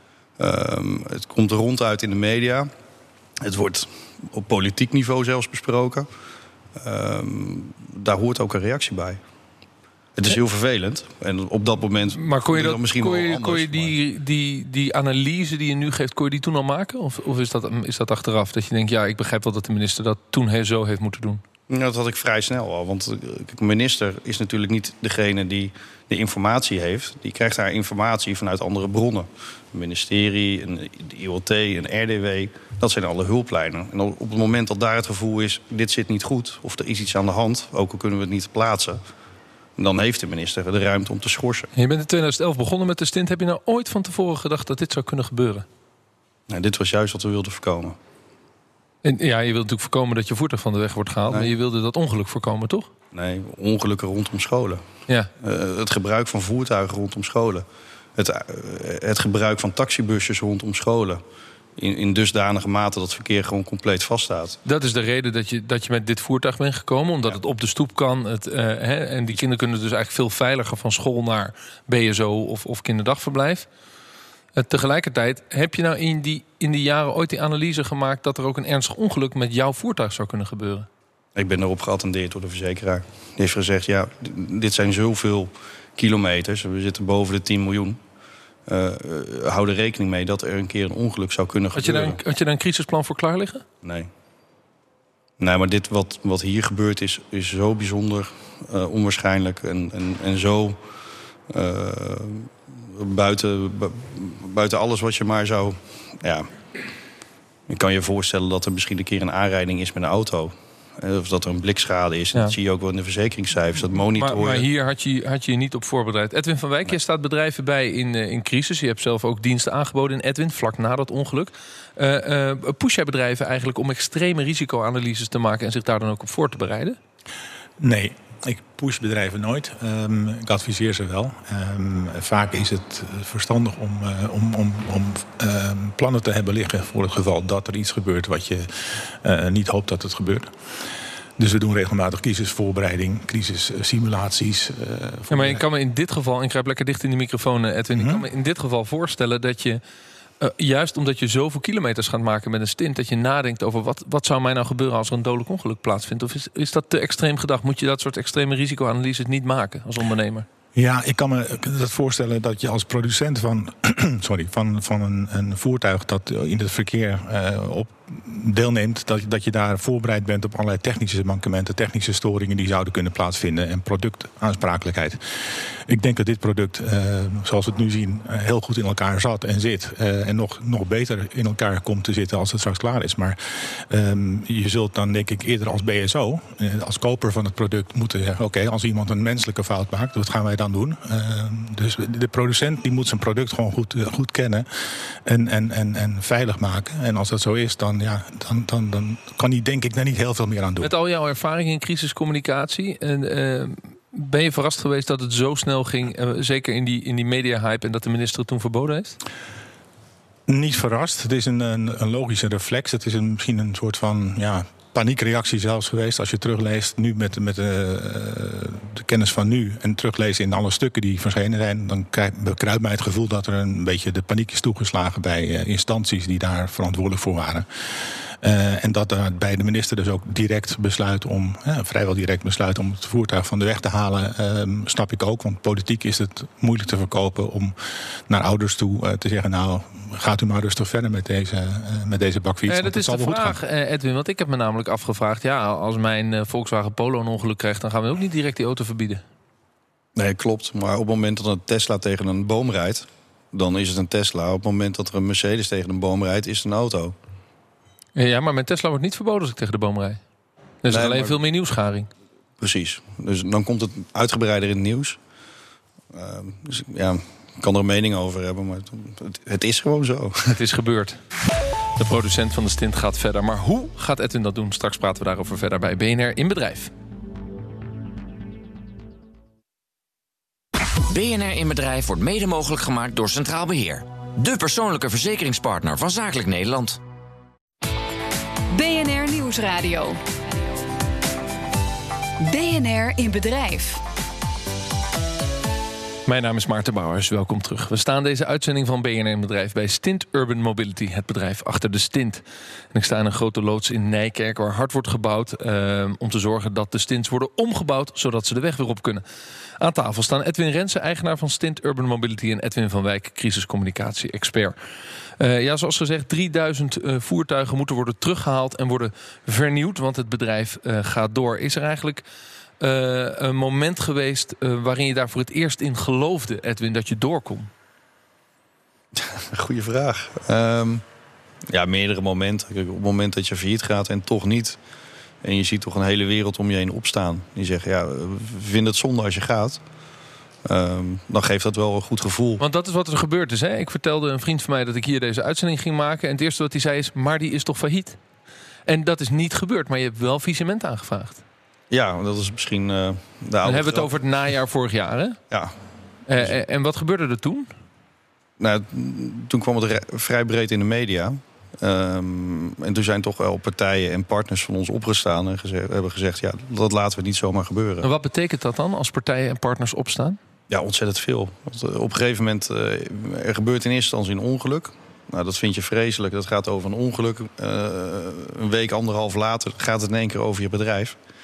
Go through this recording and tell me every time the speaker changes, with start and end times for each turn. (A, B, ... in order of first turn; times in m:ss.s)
0:00.4-0:02.7 A
0:03.4-0:06.1 A
0:06.8-0:09.2 A
0:10.2-0:13.9 A
0:12.1-0:21.4 B
0:21.7-0:39.0 A
0:39.8-0:41.7 A
0:41.8-0:45.6 B
0:46.5-0:48.0 A
0:49.0-0:52.9 B
0:53.1-0:54.8 A
0:55.4-0:57.6 A
0:58.2-1:01.2 A
1:01.8-1:04.6 A
1:04.6-1:13.7 B
1:14.6-1:20.9 B
1:21.4-1:28.0 A
1:28.7-1:32.2 A
1:31.7-1:33.6 B
1:33.8-1:34.1 A
1:35.4-1:40.8 A
1:41.5-1:46.5 A
1:47.7-1:54.6 A
1:54.2-2:07.0 B
2:07.8-2:20.5 C
2:21.4-2:25.6 C
2:25.3-2:29.8 B
2:27.9-2:28.2 C
2:30.4-2:40.4 B
2:40.7-3:20.9 C
3:20.8-3:29.2 B
3:30.5-3:57.7 C
3:58.3-4:03.6 C
4:02.7-4:09.2 B
4:10.2-4:17.1 A
4:18.2-4:20.2 B
4:20.8-4:22.1 B
4:20.9-4:21.4 A
4:22.6-4:25.2 A
4:26.1-4:30.6 A
4:30.5-4:31.2 B
4:32.0-4:36.9 B
4:41.1-4:47.0 D
4:48.7-4:50.2 E
4:52.4-4:54.0 E
4:56.2-5:09.2 B
5:09.8-5:14.8 B
5:15.4-5:22.2 B
5:22.8-5:27.7 B
5:29.1-5:31.0 A
5:31.7-5:34.8 A
5:35.4-5:39.8 A
5:40.6-5:42.6 A
5:42.6-5:48.2 B
5:48.9-5:51.4 B
5:51.9-5:54.1 A
5:53.6-5:55.4 B
5:55.5-5:55.7 A
5:56.3-5:57.7 B
5:58.6-6:08.1 A
6:08.0-6:10.4 B
6:10.7-6:21.2 A